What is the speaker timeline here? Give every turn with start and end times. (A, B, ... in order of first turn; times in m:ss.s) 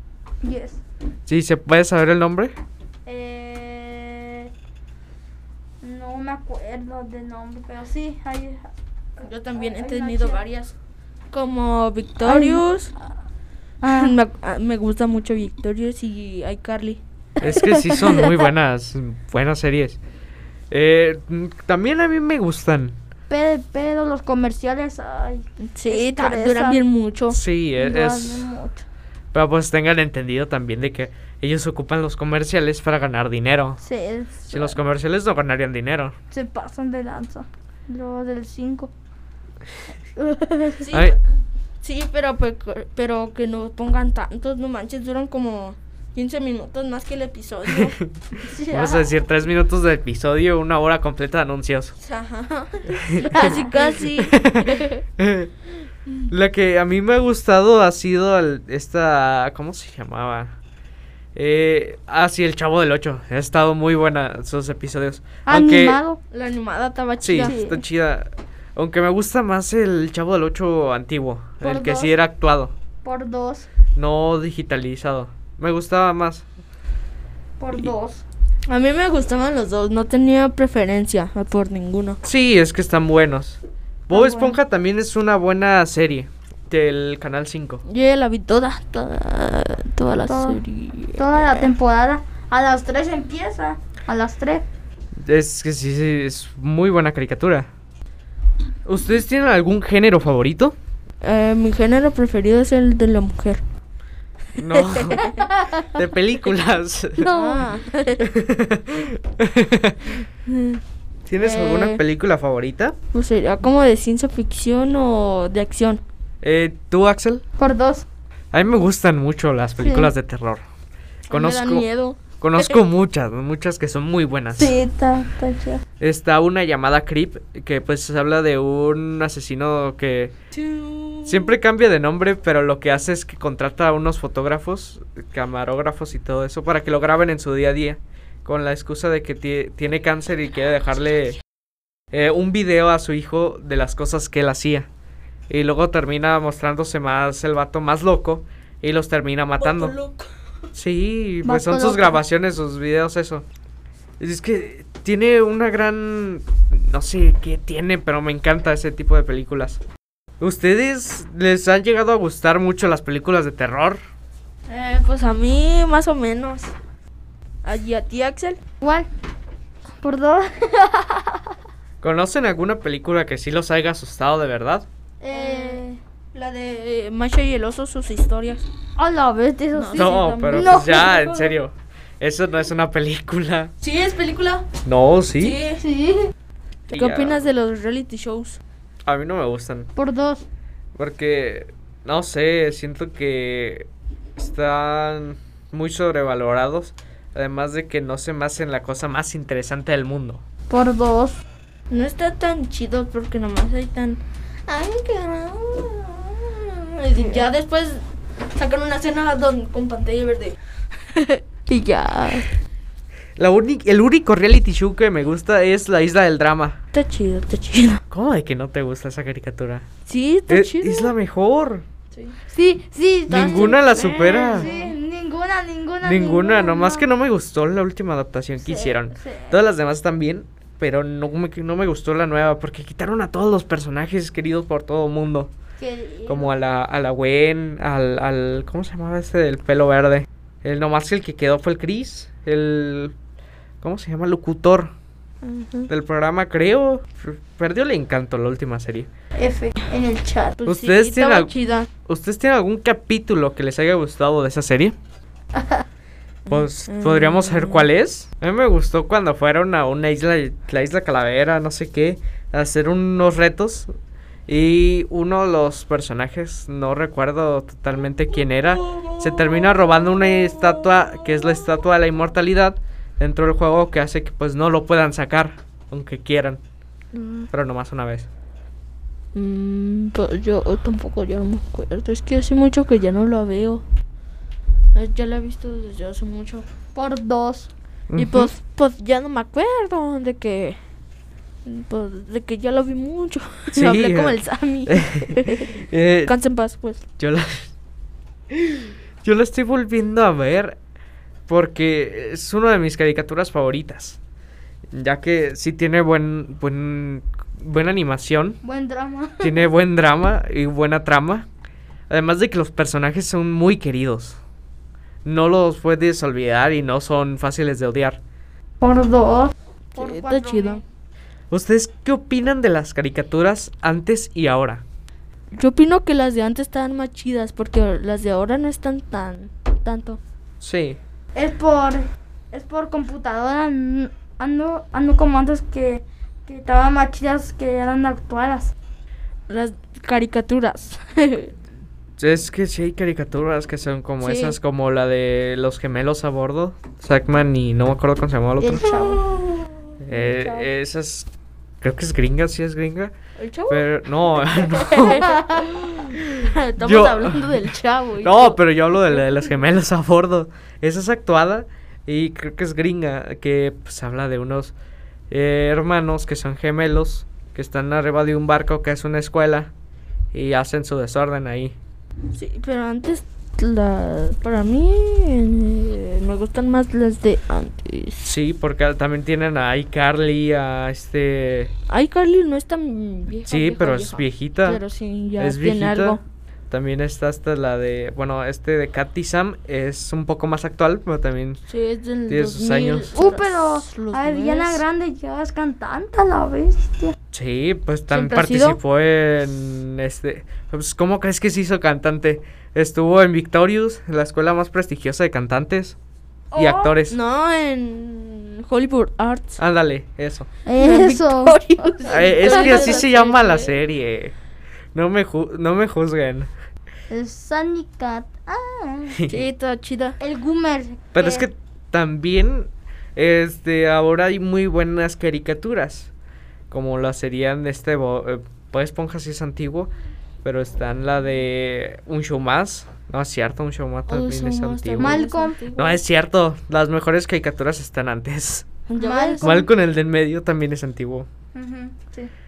0:00.4-0:00.8 A
0:01.3-0:02.5 B
0:03.0-0:04.5 A
0:05.8-0:08.7 A
0:09.2-0:10.7 C
0:09.6-0:10.4 A
0:11.3-0:12.9 C
0:12.2-0:12.6 A
0:13.8-0:14.1 A
0:13.8-0:18.3 C
0:17.4-0:20.0 B
0:20.7-0:23.0 B
0:23.3-0:26.8 A
0:25.7-0:27.4 C
0:27.3-0:28.5 B
0:27.8-0:28.8 A
0:29.3-0:33.8 B
0:33.8-0:34.8 A
0:34.5-0:36.1 B
0:36.3-0:38.9 A
0:40.2-0:40.9 A
0:40.8-0:41.2 C
0:40.9-0:41.2 B
0:41.8-0:48.0 C
0:47.7-0:51.9 B
0:48.5-0:49.1 A
0:52.0-0:55.0 C
0:53.1-0:53.6 B
0:53.2-0:53.9 A
0:54.2-0:55.5 B
0:56.3-1:00.5 B
1:01.3-1:06.0 B
1:05.4-1:06.2 A
1:06.3-1:07.6 C
1:07.2-1:12.7 B
1:07.4-1:07.8 A
1:11.6-1:12.2 A
1:13.0-1:13.7 A
1:13.9-1:16.4 B
1:17.6-1:18.2 A
1:18.6-1:22.2 C
1:22.2-1:27.8 B
1:24.1-1:24.6 A
1:27.8-1:31.7 C
1:30.2-1:30.6 A
1:31.2-1:34.6 A
1:35.2-1:37.7 B
1:38.8-1:40.7 B
1:41.2-1:43.6 C
1:44.6-1:47.3 B
1:44.7-1:45.2 C
1:45.3-1:45.8 A
1:47.2-1:47.7 A
1:47.3-1:48.3 C
1:48.2-1:50.2 B
1:50.5-1:50.8 C
1:51.3-1:53.0 B
1:51.4-1:52.0 C
1:53.1-1:56.0 C
1:56.4-1:57.4 B
1:57.6-1:58.0 A
1:58.5-2:00.6 B
1:59.8-2:00.1 A
2:01.3-2:01.8 B
2:01.3-2:02.8 C
2:02.4-2:04.8 B
2:04.6-2:05.8 A
2:06.0-2:10.3 B
2:10.5-2:11.6 C
2:11.2-2:21.4 B
2:22.1-2:24.9 B
2:25.5-2:29.9 B
2:29.6-2:30.3 C
2:30.7-2:33.4 B
2:31.4-2:32.2 A
2:34.2-2:39.8 B
2:40.4-2:44.0 B
2:44.7-2:46.7 C
2:47.6-2:48.6 C
2:48.8-2:49.1 A
2:50.0-2:51.4 A
2:52.0-2:54.8 B
2:55.2-2:56.0 A
2:55.3-2:58.6 C
2:59.0-3:01.5 A
2:59.7-3:00.9 C
3:00.0-3:03.7 B
3:03.8-3:04.7 C
3:04.8-3:05.6 B
3:05.4-3:05.8 C
3:05.8-3:06.3 A
3:06.9-3:08.6 C
3:06.9-3:07.5 B
3:09.0-3:09.9 B
3:09.9-3:10.4 A
3:11.0-3:20.4 B
3:20.7-3:21.4 A
3:21.9-3:30.6 C
3:27.2-3:27.4 A
3:31.1-3:32.5 C
3:33.4-3:36.8 B
3:36.9-3:38.0 C
3:38.1-3:39.8 B
3:40.0-3:41.1 C
3:40.5-3:41.8 B
3:42.5-3:47.1 A
3:43.3-3:44.7 B
3:43.3-3:45.0 C
3:46.0-3:55.5 B
3:48.6-3:49.6 A
3:55.8-3:56.5 A
3:56.3-4:03.1 B
4:03.8-4:04.9 B
4:05.4-4:05.9 C
4:05.9-4:09.1 B
4:09.3-4:10.6 A
4:10.6-4:11.9 C
4:10.6-4:11.5 B
4:12.0-4:14.9 B
4:15.5-4:15.8 A
4:16.5-4:17.9 C
4:16.5-4:23.9 B
4:24.5-4:36.6 B
4:37.1-4:37.5 C
4:37.5-4:38.3 B
4:39.3-4:43.8 C
4:44.9-4:46.6 C
4:46.9-4:47.7 A
4:48.1-4:48.5 B
4:48.2-4:50.8 C
4:51.6-4:57.0 C
4:53.7-4:56.3 B
4:57.2-4:57.7 B
4:58.5-5:00.8 B
5:01.5-5:04.2 B
5:04.9-5:08.6 B
5:08.6-5:09.7 A
5:09.4-5:11.4 B
5:12.1-5:14.4 B
5:15.2-5:18.2 B
5:18.8-5:20.8 A
5:19.9-5:20.8 C
5:21.5-5:24.8 B
5:25.5-5:30.2 C
5:30.6-5:31.0 B
5:31.3-5:38.7 A
5:39.5-5:41.5 C
5:42.2-5:48.9 B
5:44.2-5:44.6 C
5:48.6-5:49.2 A
5:48.8-5:49.7 C
5:50.0-5:51.3 B
5:50.1-5:50.7 A
5:51.8-5:53.1 B
5:53.4-5:58.6 C
5:53.7-5:55.2 B
5:55.1-5:55.7 A
5:56.8-5:57.7 B
5:58.2-6:04.7 B
6:05.3-6:09.7 B
6:10.3-6:11.8 B
6:12.3-6:18.3 C
6:18.2-6:21.7 B
6:21.9-6:26.2 C
6:23.5-6:24.8 B
6:25.4-6:31.6 B
6:31.7-6:34.8 C
6:32.3-6:33.2 B
6:33.1-6:37.1 A
6:37.3-6:46.0 B
6:38.1-6:38.8 C
6:46.5-6:47.0 A
6:46.6-6:47.2 B
6:47.1-6:49.6 C
6:49.6-6:50.5 B
6:50.6-6:53.0 A
6:50.8-6:53.8 C
6:52.1-6:54.3 B
6:54.9-6:56.5 B
6:57.1-6:59.2 A
6:59.2-6:59.4 B
6:59.3-7:00.2 C
7:00.2-7:01.5 A
7:01.1-7:06.1 B
7:06.7-7:09.9 B
7:10.4-7:15.2 B
7:14.1-7:16.0 C
7:15.0-7:15.6 A
7:15.7-7:18.7 B
7:18.9-7:19.5 C
7:19.0-7:19.7 A
7:19.4-7:21.3 B
7:21.5-7:22.3 A